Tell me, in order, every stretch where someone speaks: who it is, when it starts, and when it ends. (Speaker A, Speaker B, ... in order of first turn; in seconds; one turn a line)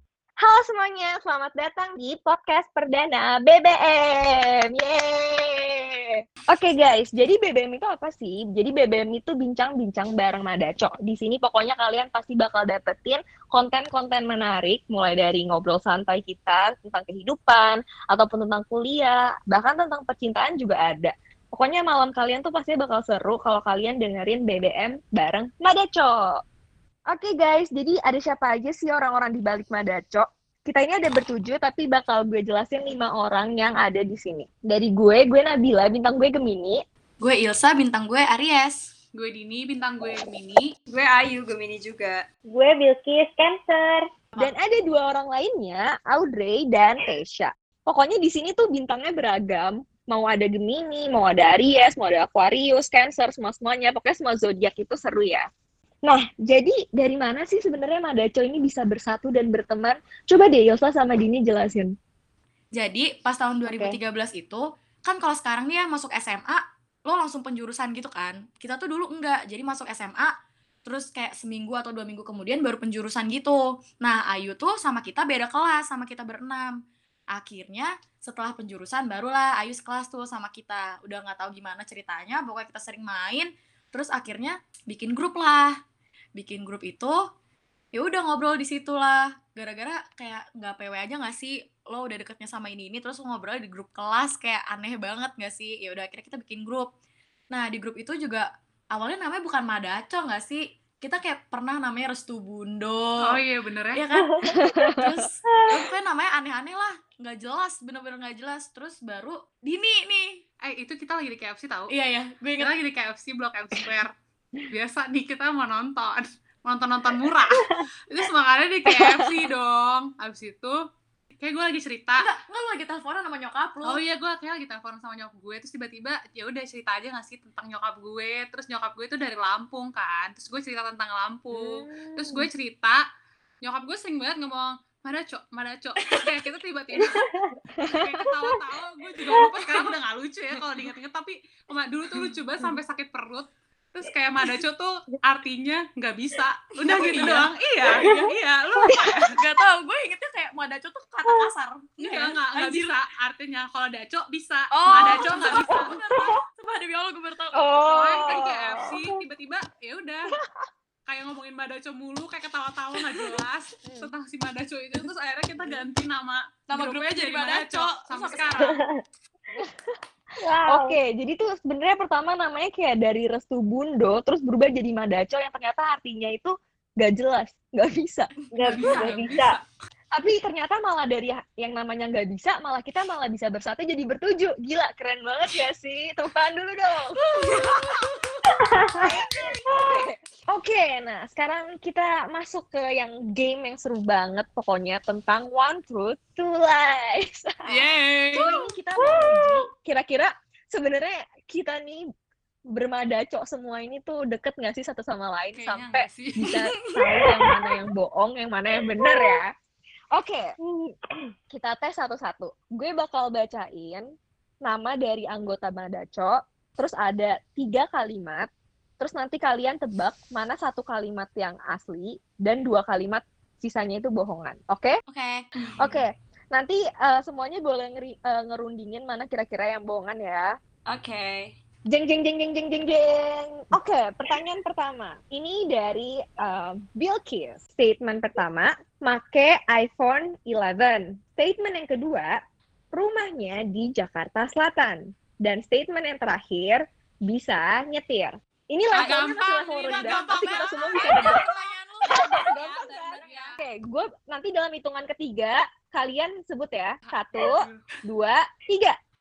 Speaker A: 0.4-26.4
Speaker A: 27.1-36.8
Speaker B: 37.2-38.9
Speaker C: 39.1-40.7
Speaker D: 40.9-42.2
Speaker E: 42.5-44.0
Speaker A: 44.4-55.5
Speaker A: 56.1-62.0
Speaker B: 62.8-76.8
Speaker A: 63.7-64.0
Speaker B: 77.3-85.8
Speaker B: 86.4-87.2
Speaker B: 87.9-96.9
Speaker B: 97.5-103.4
Speaker C: 103.2-104.0
Speaker B: 103.9-110.4
Speaker E: 104.2-104.5
Speaker A: 104.5-105.2
Speaker E: 105.5-105.8
Speaker C: 110.7-111.9
Speaker B: 111.9-112.7
Speaker C: 112.6-114.1
Speaker C: 114.7-120.8
Speaker A: 118.9-119.3
Speaker C: 121.4-122.3
Speaker B: 122.2-124.0
Speaker C: 123.8-133.0
Speaker A: 131.5-132.5
Speaker C: 133.6-137.3
Speaker E: 137.0-137.5
Speaker A: 137.8-138.3
Speaker C: 137.9-149.3
Speaker B: 146.9-148.2
Speaker A: 148.9-149.2
Speaker B: 149.3-152.9
Speaker C: 152.0-156.3
Speaker B: 154.7-158.1
Speaker E: 155.7-156.3
Speaker A: 157.5-159.0
Speaker C: 157.8-160.3
Speaker C: 161.1-168.8
Speaker A: 163.8-164.1
Speaker B: 166.7-168.8
Speaker E: 168.6-168.9
Speaker A: 169.5-170.0
Speaker E: 170.4-171.0
Speaker A: 170.7-178.3
Speaker B: 178.5-179.4
Speaker E: 178.6-179.6
Speaker C: 178.6-179.7
Speaker A: 180.2-187.7
Speaker D: 187.4-188.1
Speaker E: 188.5-189.1
Speaker A: 188.9-202.1
Speaker E: 189.7-190.0
Speaker C: 197.7-198.5
Speaker E: 198.4-199.6
Speaker A: 202.7-209.5
Speaker C: 205.6-206.6
Speaker E: 209.0-209.4
Speaker A: 210.1-210.5
Speaker E: 210.6-211.3
Speaker A: 211.5-214.1
Speaker A: 214.7-218.5
Speaker A: 219.0-225.0
Speaker B: 225.1-226.0
Speaker A: 225.8-230.5
Speaker D: 230.9-231.5
Speaker A: 231.9-242.3
Speaker A: 242.9-251.4
Speaker C: 248.9-251.4
Speaker B: 249.9-253.6
Speaker A: 252.1-259.0
Speaker D: 252.5-253.1
Speaker C: 253.2-253.6
Speaker C: 257.1-257.8